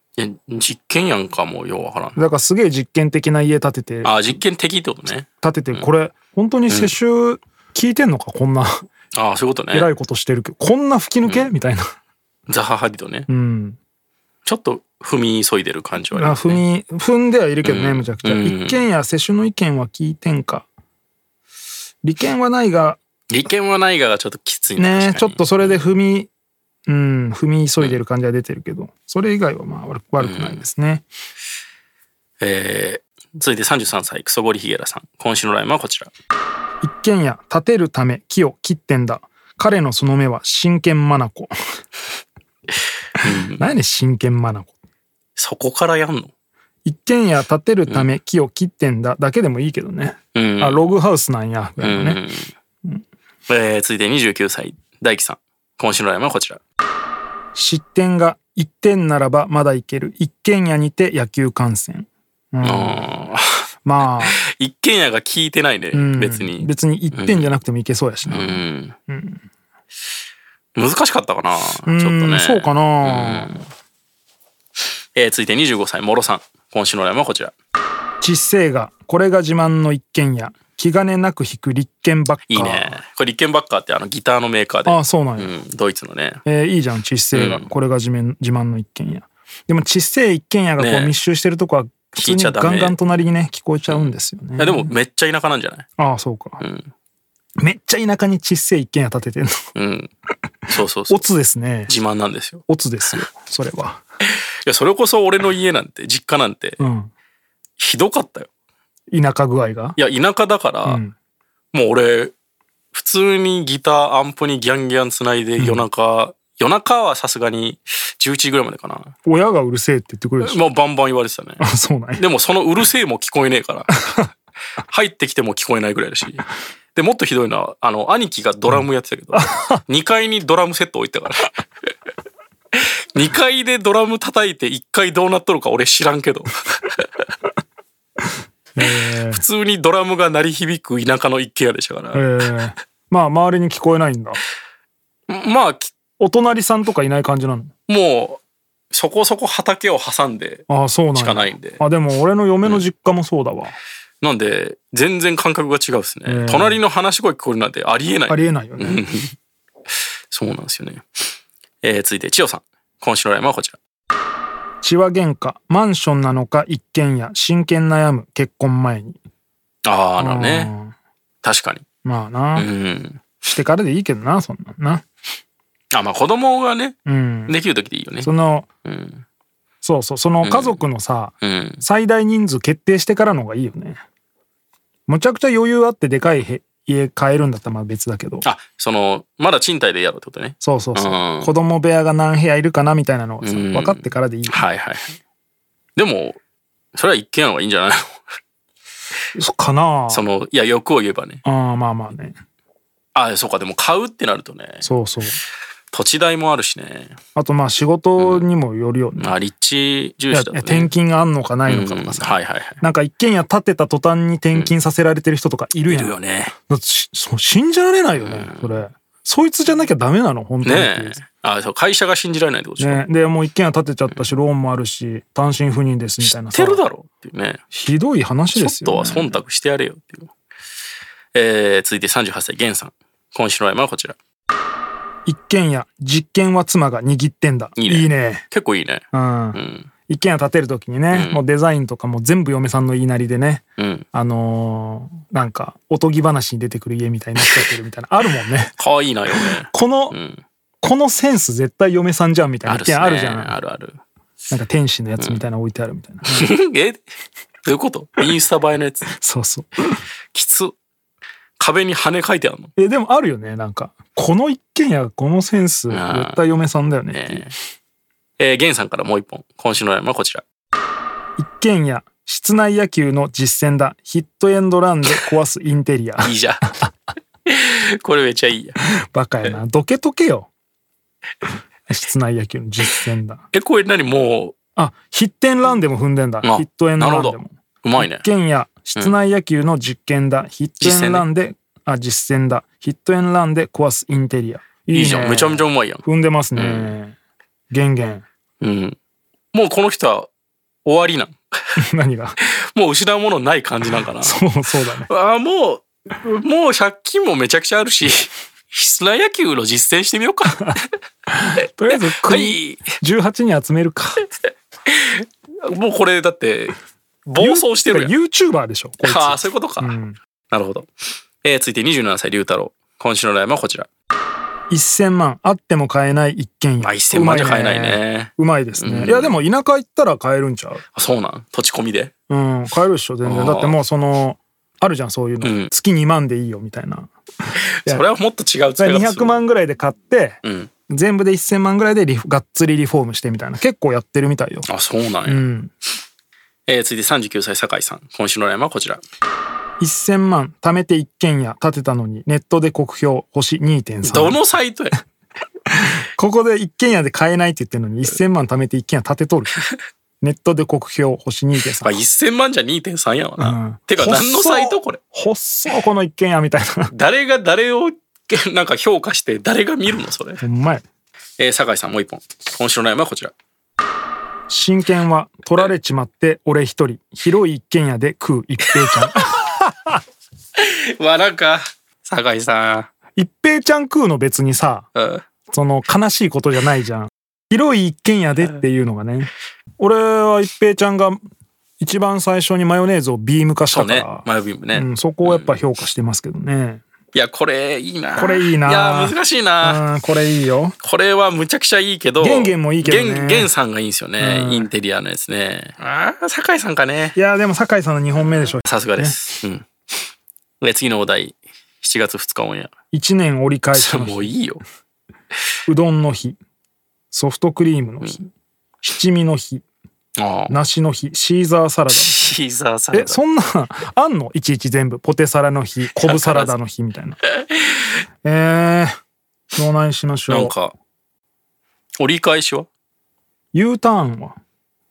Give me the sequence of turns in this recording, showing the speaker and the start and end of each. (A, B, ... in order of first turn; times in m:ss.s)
0:00.2-0:02.2 A
0:02.2-0:04.4 B
0:04.0-0:05.9 A
0:05.4-0:08.9 B
0:06.7-0:07.0 A
0:09.2-0:09.9 A
0:09.7-0:11.8 B
0:11.3-0:11.5 A
0:12.5-0:13.3 A
0:13.3-0:13.8 B
0:14.4-0:16.6 A
0:16.1-0:20.6 B
0:17.6-0:18.8 A
0:22.0-0:23.0 B
0:23.3-0:25.8 A
0:24.8-0:26.3 B
0:26.9-0:31.0 B
0:30.2-0:30.7 A
0:32.4-0:36.1 A
0:36.8-0:41.5 B
0:43.2-0:44.7 B
0:43.2-0:43.8 A
0:45.4-0:46.3 A
0:46.8-0:52.2 B
0:47.9-0:48.1 A
0:50.3-0:50.9 A
0:51.8-0:52.5 A
0:53.5-0:56.6 A
0:57.6-1:03.1 B
1:02.6-1:03.6 A
1:03.8-1:04.4 B
1:04.2-1:07.6 A
1:05.9-1:09.4 B
1:08.3-1:09.0 A
1:10.8-1:13.6 A
1:11.8-1:13.7 B
1:15.2-1:17.6 A
1:18.2-1:23.0 B
1:22.5-1:26.4 A
1:24.9-1:25.6 B
1:26.4-1:34.9 B
1:27.3-1:27.7 A
1:30.8-1:31.2 A
1:32.2-1:33.0 A
1:33.9-1:35.9 A
1:36.0-1:36.6 B
1:36.6-1:36.9 A
1:37.6-1:39.5 B
1:39.8-1:40.1 A
1:40.7-1:41.3 A
1:41.1-1:41.9 B
1:41.9-1:43.3 A
1:42.7-1:44.0 B
1:44.3-1:46.8 A
1:46.8-1:47.1 B
1:47.8-1:48.5 A
1:49.1-1:50.0 B
1:50.0-1:51.0 A
1:50.8-1:51.1 B
1:51.7-1:52.3 A
1:52.9-1:59.2 A
1:55.6-1:55.9 B
1:59.3-2:00.6 B
2:00.4-2:01.6 A
2:01.6-2:02.2 B
2:02.2-2:04.0 A
2:04.9-2:11.6 A
2:09.3-2:09.8 B
2:12.7-2:17.0 A
2:18.8-2:19.4 B
2:18.8-2:22.3 A
2:22.1-2:24.4 B
2:25.3-2:25.9 A
2:26.2-2:27.7 B
2:27.9-2:31.8 A
2:30.7-2:33.8 B
2:34.2-2:39.3 A
2:36.2-2:36.8 B
2:38.3-2:39.0 B
2:40.3-2:41.1 A
2:41.8-2:43.8 A
2:44.8-2:49.2 B
2:49.9-2:50.7 A
2:50.2-2:50.9 B
2:51.4-2:51.8 A
2:52.0-2:52.7 B
2:52.6-2:53.2 A
2:53.4-2:55.0 B
2:55.9-2:58.3 A
2:57.1-2:57.6 B
2:58.2-2:58.7 B
2:58.8-2:59.2 A
2:59.8-3:04.0 B
3:00.4-3:00.8 A
3:01.4-3:01.8 A
3:05.1-3:08.5 B
3:08.4-3:11.6 A
3:10.6-3:14.6 B
3:13.4-3:15.2 A
3:16.0-3:16.4 A
3:17.0-3:18.2 A
3:19.4-3:20.2 B
3:20.1-3:21.4 A
3:21.4-3:22.4 B
3:23.2-3:24.9 A
3:24.8-3:25.4 B
3:25.9-3:27.2 A
3:27.4-3:29.4 B
3:28.2-3:28.5 A
3:29.2-3:30.9 A
3:30.3-3:36.2 B
3:31.7-3:32.8 A
3:35.8-3:36.6 A
3:36.7-3:41.2 B
3:38.2-3:38.8 A
3:40.6-3:43.1 A
3:42.8-3:46.8 B
3:46.2-3:47.6 A
3:47.7-3:49.4 B
3:48.5-3:50.3 A
3:51.3-3:54.2 A
3:55.2-3:58.5 B
3:57.8-3:59.9 A
3:59.1-4:08.7 B
4:01.1-4:01.4 A
4:03.8-4:04.1 A
4:07.4-4:07.7 A
4:08.8-4:10.4 A
4:09.4-4:10.2 B
4:10.8-4:13.6 B
4:12.7-4:14.0 A
4:14.5-4:16.5 B
4:16.3-4:17.0 A
4:17.7-4:19.1 A
4:19.2-4:20.0 B
4:20.3-4:20.7 A
4:21.6-4:22.7 A
4:22.8-4:27.5 B
4:25.9-4:26.4 A
4:27.1-4:27.5 A
4:28.4-4:30.4 A
4:31.4-4:36.4 B
4:36.2-4:36.7 A
4:37.5-4:38.8 A
4:39.1-4:40.5 B
4:41.9-4:43.4 B
4:43.5-4:44.6 A
4:44.8-4:57.2 B
4:46.4-4:48.3 A
4:50.8-4:51.3 A
4:54.9-4:57.0 A
4:57.7-4:58.2 B
4:58.6-4:59.0 A
4:59.5-5:00.3 A
5:00.8-5:01.4 A
5:01.8-5:02.4 B
5:02.5-5:04.4 A
5:04.2-5:05.1 B
5:05.1-5:10.8 A
5:10.5-5:10.8 B
5:11.3-5:14.3 B
5:11.9-5:13.0 A
5:14.9-5:18.1 A
5:17.4-5:20.2 B
5:19.0-5:20.0 A
5:20.5-5:20.9 A
5:21.4-5:23.9 A
5:24.7-5:30.8 B
5:26.8-5:29.4 A
5:30.9-5:32.1 A
5:32.3-5:37.1 B
5:33.2-5:33.8 A
5:35.4-5:35.7 A
5:37.8-5:39.4 A
5:38.8-5:44.7 B
5:40.4-5:40.7 A
5:44.7-5:45.4 A
5:45.2-5:45.7 B
5:46.7-5:49.0 A
5:49.8-5:54.4 B
5:54.0-5:55.0 A
5:56.2-5:59.5 B
6:00.2-6:02.0 B
6:01.8-6:05.0 A
6:03.4-6:06.9 B
6:06.9-6:10.4 A
6:10.4-6:10.8 B
6:11.4-6:13.3 A
6:14.5-6:19.9 B
6:18.9-6:19.2 A
6:20.6-6:22.9 A
6:23.2-6:24.9 B
6:24.9-6:25.2 A
6:25.5-6:31.2 B
6:31.8-6:36.8 B
6:33.7-6:35.6 A
6:37.1-6:39.8 A
6:38.2-6:40.8 B
6:40.8-6:47.2 A
6:42.2-6:43.5 B
6:44.2-6:44.7 B
6:47.2-6:49.2 B
6:48.2-6:49.7 A
6:50.6-6:52.7 A
6:52.9-6:54.3 B
6:53.7-6:54.6 A
6:55.7-6:56.4 B
6:57.1-6:58.3 B
6:58.8-6:59.6 B
7:00.2-7:00.6 A
7:00.5-7:02.3 B
7:01.9-7:03.2 A
7:02.9-7:07.2 B
7:06.0-7:06.6 A
7:07.2-7:07.8 A
7:08.2-7:09.0 B
7:09.6-7:10.5 B
7:10.3-7:10.8 A
7:12.0-7:12.7 A
7:13.5-7:14.4 B